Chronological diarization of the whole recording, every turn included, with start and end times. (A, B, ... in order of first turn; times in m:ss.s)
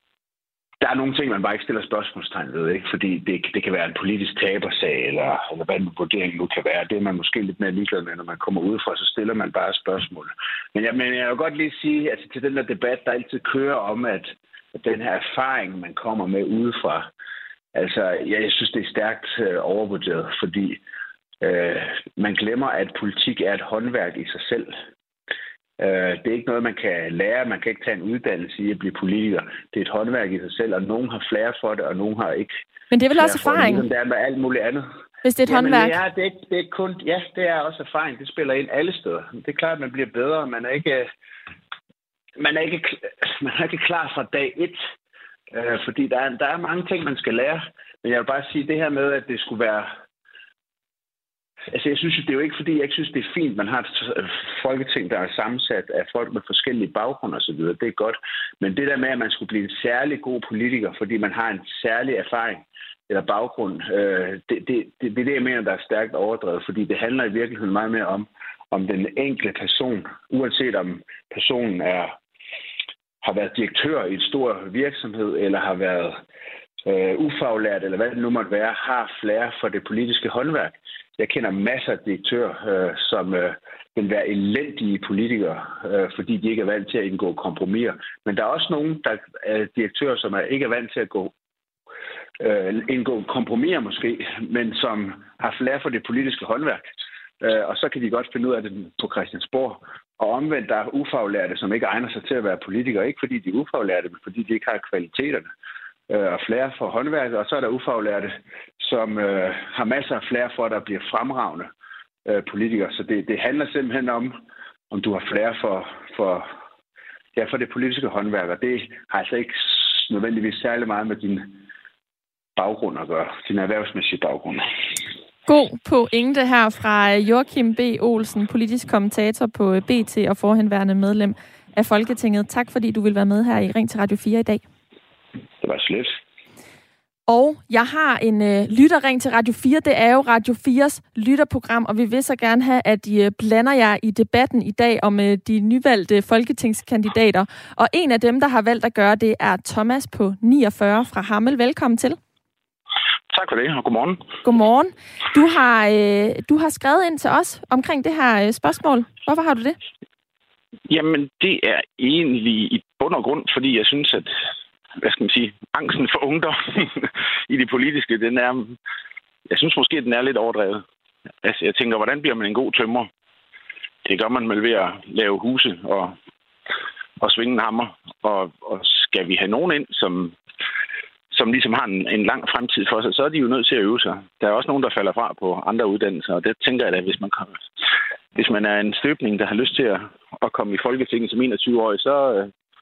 0:00.8-0:17.1 A
0:17.7-0:20.8 A
0:21.4-0:24.7 A
0:25.8-0:32.5 A
0:32.9-0:33.8 B
0:33.2-0:34.8 A
0:35.2-0:36.0 B
0:35.5-0:41.1 A
0:42.4-0:44.8 A
0:45.5-0:49.9 A
0:51.7-1:12.1 A
1:13.2-1:16.2 A
1:16.8-1:31.3 A
1:32.4-1:45.5 A
1:46.1-1:51.7 A
1:52.2-1:54.3 A
1:54.9-1:56.5 A
1:57.4-2:01.6 A
2:02.6-2:04.6 A
2:05.5-2:14.6 B
2:15.6-2:16.2 A
2:17.3-2:32.2 B
2:33.3-2:34.2 C
2:34.4-2:39.8 B
2:40.9-2:44.3 C
2:45.0-2:48.8 C
2:49.5-2:50.8 C
2:51.4-2:53.1 C
2:54.0-2:56.2 C
2:57.2-3:00.4 C
3:01.3-3:07.6 C
3:08.3-3:12.5 C